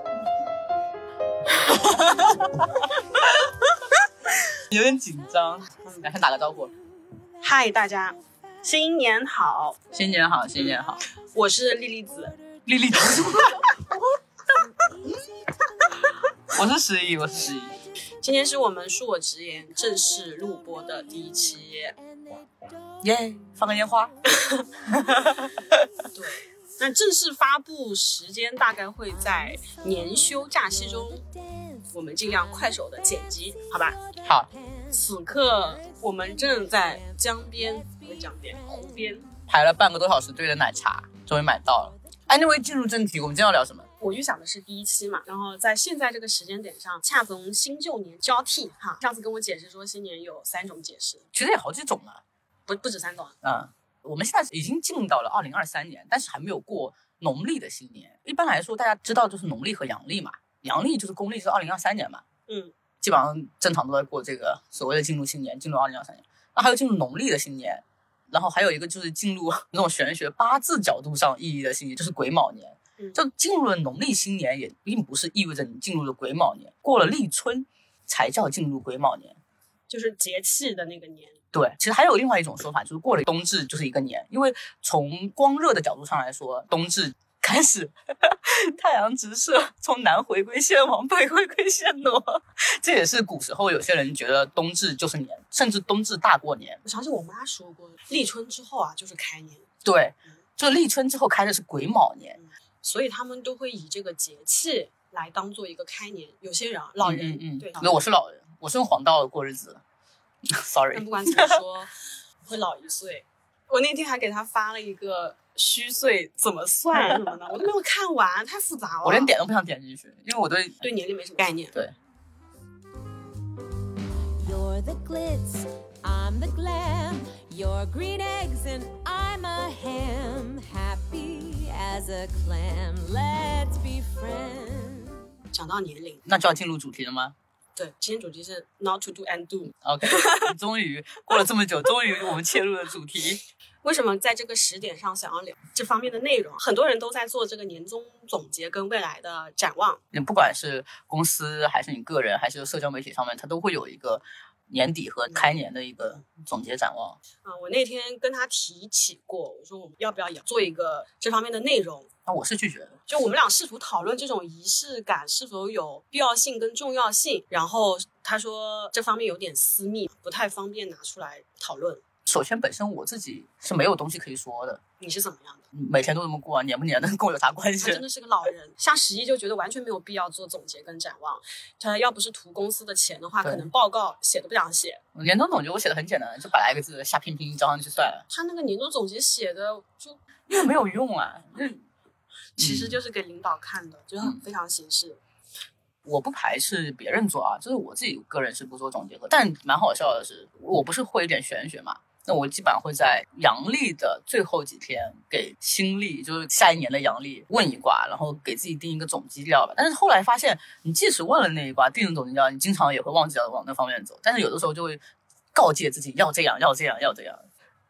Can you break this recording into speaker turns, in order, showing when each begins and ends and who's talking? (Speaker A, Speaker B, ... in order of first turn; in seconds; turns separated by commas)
Speaker A: 1.6-3.5, Speaker A: 4.5-6.7, Speaker B: 5.8-6.1, Speaker B: 7.4-9.8, Speaker A: 9.9-11.0, Speaker B: 11.3-12.3, Speaker A: 12.7-13.8, Speaker C: 14.6-15.9, Speaker A: 16.5-17.8, Speaker B: 18.2-21.9, Speaker A: 23.0-24.1, Speaker A: 24.8-25.9, Speaker B: 26.1-31.2, Speaker C: 31.4-31.8, Speaker B: 31.9-34.0, Speaker A: 34.2-34.5, Speaker C: 34.5-34.9, Speaker B: 34.9-39.3, Speaker C: 35.4-39.3, Speaker A: 39.5-43.9, Speaker B: 44.0-51.2, Speaker A: 51.3-52.2, Speaker B: 52.7-53.3, Speaker A: 53.4-62.2, Speaker A: 63.0-79.4, Speaker B: 79.9-81.4, Speaker A: 81.5-96.8, Speaker B: 96.8-99.7, Speaker A: 99.8-102.4, Speaker B: 102.3-108.0, Speaker A: 107.0-109.8, Speaker A: 110.4-111.6, Speaker B: 110.9-111.9, Speaker B: 112.4-119.3, Speaker A: 116.9-117.3, Speaker A: 119.0-120.8, Speaker B: 120.8-121.8, Speaker C: 124.4-135.2, Speaker B: 135.5-136.2, Speaker A: 136.2-137.3, Speaker B: 137.8-140.5, Speaker A: 139.8-143.4, Speaker B: 143.8-150.0, Speaker A: 150.1-157.2, Speaker B: 157.4-162.1, Speaker A: 162.2-163.0, Speaker B: 163.1-172.0, Speaker A: 172.2-174.8, Speaker B: 175.0-175.7, Speaker A: 175.7-178.0, Speaker B: 177.8-185.0, Speaker A: 183.4-183.7, Speaker A: 185.1-188.2, Speaker B: 188.3-190.2, Speaker A: 190.5-191.8, Speaker A: 192.6-193.0, Speaker B: 192.6-195.2, Speaker A: 196.0-215.0, Speaker A: 215.5-217.4